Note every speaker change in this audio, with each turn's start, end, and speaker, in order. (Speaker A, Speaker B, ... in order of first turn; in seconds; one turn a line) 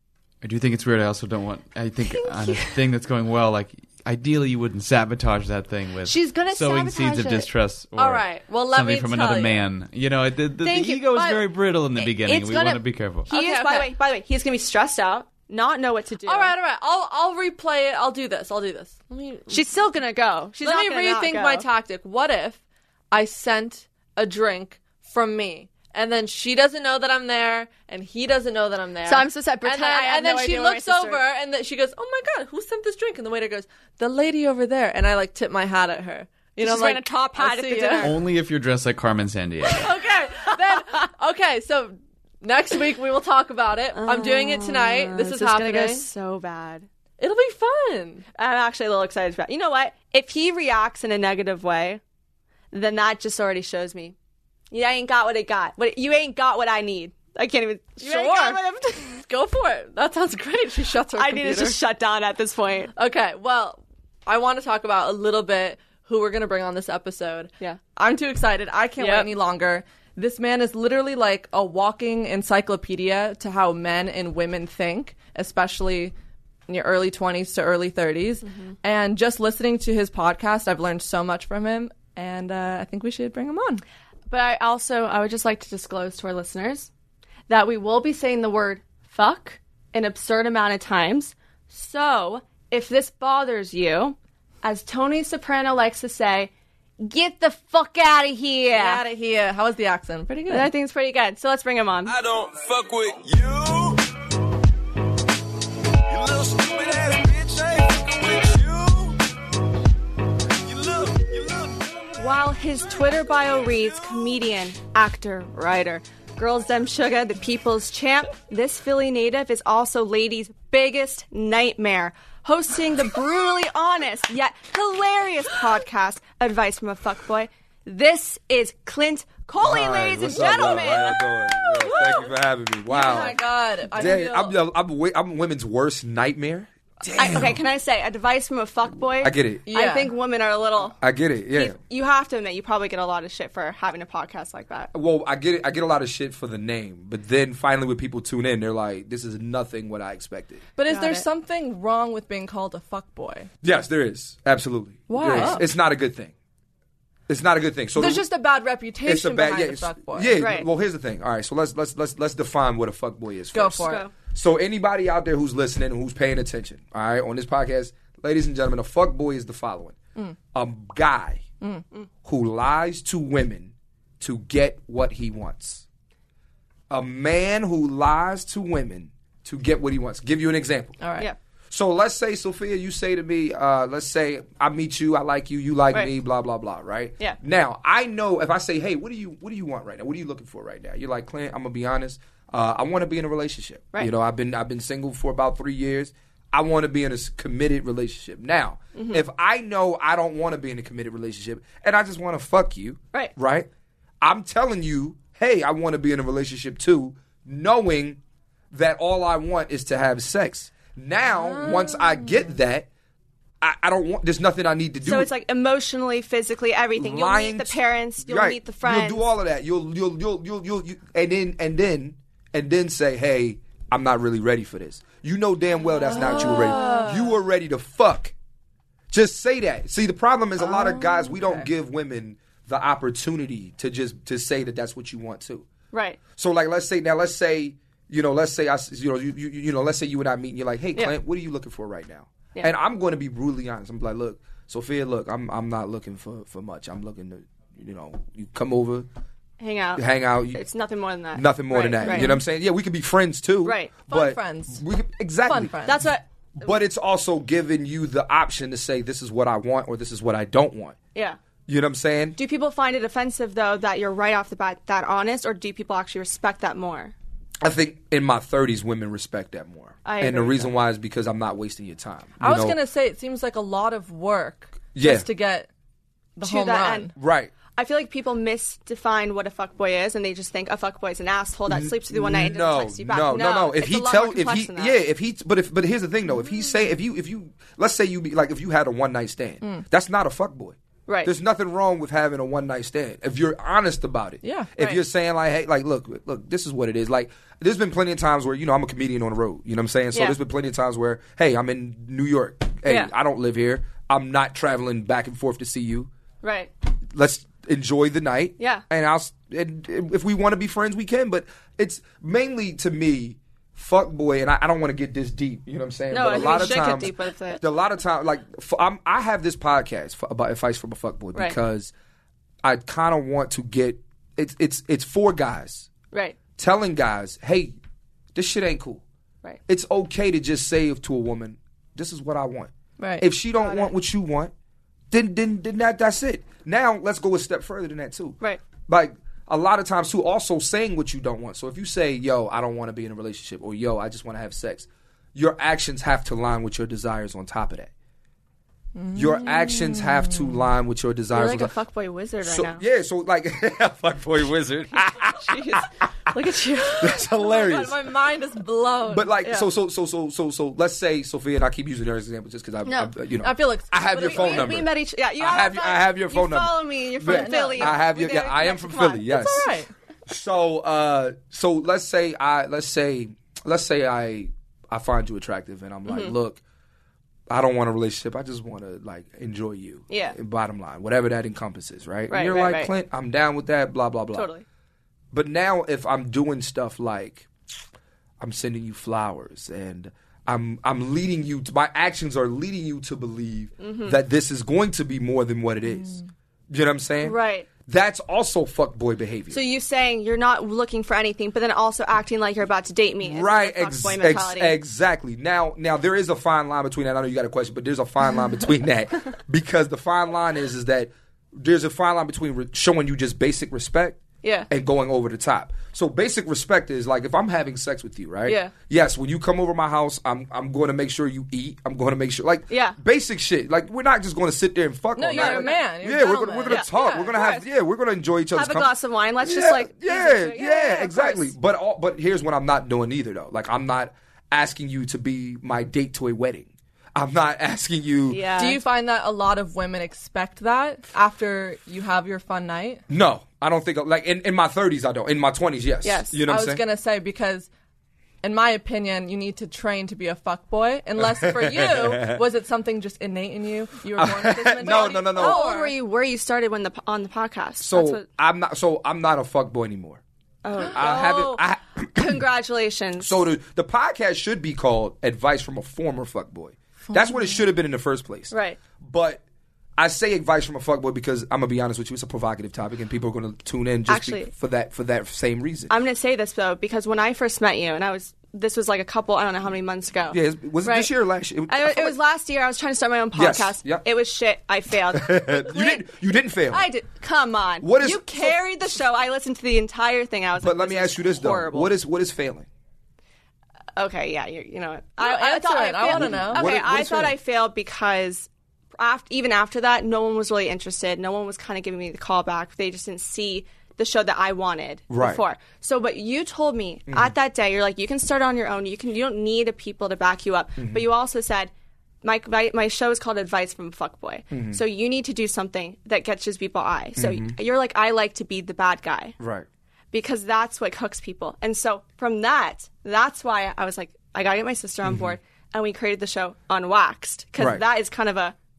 Speaker A: 0.4-13.3
Speaker B: 2.0-2.8
Speaker B: 6.0-7.5
Speaker C: 8.0-9.7
Speaker B: 10.6-16.5
Speaker C: 13.3-13.9
Speaker C: 16.2-19.7
Speaker B: 19.5-21.7
Speaker C: 20.6-22.6
Speaker C: 23.1-38.1
Speaker B: 29.1-31.2
Speaker B: 36.6-38.2
Speaker A: 38.0-39.9
Speaker C: 39.7-46.1
Speaker B: 43.9-46.9
Speaker C: 47.2-48.2
Speaker B: 48.4-52.0
Speaker B: 52.7-54.1
Speaker B: 54.7-59.1
Speaker C: 58.0-61.8
Speaker B: 61.1-62.9
Speaker C: 63.0-76.1
Speaker B: 69.0-69.3
Speaker C: 76.7-83.8
Speaker B: 78.5-78.8
Speaker B: 84.3-86.9
Speaker B: 87.5-99.0
Speaker C: 98.7-100.7
Speaker B: 100.5-102.2
Speaker D: 102.0-104.0
Speaker D: 106.1-109.2
Speaker D: 110.6-112.1
Speaker B: 112.2-132.1
Speaker D: 113.7-114.2
Speaker E: 129.6-137.6
Speaker C: 131.8-132.2
Speaker C: 132.9-134.6
Speaker B: 133.0-133.4
Speaker B: 137.2-141.0
Speaker E: 139.2-139.7
Speaker C: 139.7-140.1
Speaker E: 141.0-141.8
Speaker B: 141.5-144.9
Speaker E: 144.9-150.7
Speaker C: 150.8-153.5
Speaker B: 150.9-151.3
Speaker E: 153.6-156.3
Speaker C: 155.1-155.7
Speaker E: 157.3-158.2
Speaker C: 158.0-160.4
Speaker E: 159.1-170.0
Speaker B: 160.4-160.7
Speaker C: 163.5-164.0
Speaker B: 163.8-164.1
Speaker E: 170.5-171.4
Speaker E: 172.2-175.8
Speaker E: 176.9-181.0
Speaker C: 181.0-181.3
Speaker E: 181.7-203.7
Speaker B: 198.9-199.2
Speaker E: 204.2-208.2
Speaker E: 208.7-212.9
Speaker C: 211.4-212.4
Speaker E: 213.6-215.3
Speaker B: 215.0-219.2
Speaker E: 216.9-228.3
Speaker C: 226.1-227.3
Speaker B: 226.4-227.0
Speaker E: 229.1-235.7
Speaker C: 230.6-231.7
Speaker B: 235.9-236.2
Speaker E: 236.4-249.1
Speaker B: 249.6-252.3
Speaker E: 250.0-250.6
Speaker E: 251.3-261.0
Speaker C: 252.0-252.4
Speaker B: 253.6-253.9
Speaker C: 254.1-254.8
Speaker C: 255.4-256.0
Speaker B: 255.8-256.7
Speaker E: 261.7-262.4
Speaker B: 262.4-267.1
Speaker E: 267.6-272.8
Speaker B: 270.1-270.7
Speaker C: 272.4-275.7
Speaker E: 274.9-275.3
Speaker C: 276.4-277.1
Speaker B: 276.4-277.1
Speaker E: 277.2-277.5
Speaker B: 277.6-285.0
Speaker E: 281.7-306.1
Speaker B: 291.1-291.3
Speaker C: 294.4-295.0
Speaker B: 302.9-303.1
Speaker B: 306.4-306.7
Speaker E: 307.1-321.9
Speaker B: 308.6-308.8
Speaker B: 316.1-317.6
Speaker E: 322.6-325.9
Speaker B: 326.1-326.4
Speaker E: 326.6-327.8
Speaker E: 328.4-329.0
Speaker E: 329.7-334.5
Speaker C: 333.0-333.3
Speaker B: 333.6-333.9
Speaker E: 335.1-347.9
Speaker C: 349.0-350.5
Speaker E: 349.1-351.7
Speaker B: 351.3-352.8
Speaker E: 352.4-355.9
Speaker B: 355.0-357.2
Speaker E: 357.0-358.0
Speaker C: 357.2-359.3
Speaker E: 359.1-369.7
Speaker B: 362.9-363.1
Speaker C: 363.4-364.8
Speaker B: 364.3-369.4
Speaker C: 367.2-368.0
Speaker C: 369.2-369.9
Speaker E: 370.3-376.6
Speaker B: 376.1-376.3
Speaker E: 377.5-384.5
Speaker B: 380.1-380.4
Speaker B: 382.3-382.9
Speaker B: 384.3-384.6
Speaker E: 385.3-387.5
Speaker E: 388.4-399.6
Speaker B: 393.8-394.2
Speaker B: 397.2-397.7
Speaker B: 399.5-404.8
Speaker E: 403.2-438.5
Speaker B: 414.4-414.7
Speaker B: 422.7-423.0
Speaker C: 425.2-427.3
Speaker B: 425.3-425.8
Speaker B: 426.7-427.6
Speaker B: 428.5-431.5
Speaker B: 438.3-438.8
Speaker C: 438.6-443.0
Speaker E: 443.1-446.8
Speaker B: 446.0-446.4
Speaker C: 446.5-447.7
Speaker C: 448.4-455.9
Speaker E: 451.2-452.4
Speaker E: 454.2-455.6
Speaker B: 454.9-458.2
Speaker E: 457.8-460.2
Speaker B: 460.6-461.5
Speaker C: 460.8-461.6
Speaker E: 460.9-462.4
Speaker B: 462.1-463.4
Speaker E: 463.2-469.4
Speaker C: 467.1-467.6
Speaker B: 468.5-468.8
Speaker E: 470.0-475.9
Speaker B: 474.1-474.5
Speaker B: 475.9-481.1
Speaker E: 480.3-482.2
Speaker B: 481.7-486.1
Speaker E: 483.3-484.1
Speaker E: 485.1-486.9
Speaker B: 486.7-491.9
Speaker E: 487.8-488.6
Speaker E: 490.6-492.7
Speaker B: 494.0-519.4
Speaker C: 495.2-496.7
Speaker E: 496.1-497.4
Speaker E: 505.1-505.4
Speaker E: 507.1-507.4
Speaker E: 510.8-511.1
Speaker E: 514.5-514.8
Speaker E: 517.2-517.6
Speaker E: 519.4-519.7
Speaker B: 520.1-528.5
Speaker E: 525.0-525.4
Speaker E: 527.6-527.8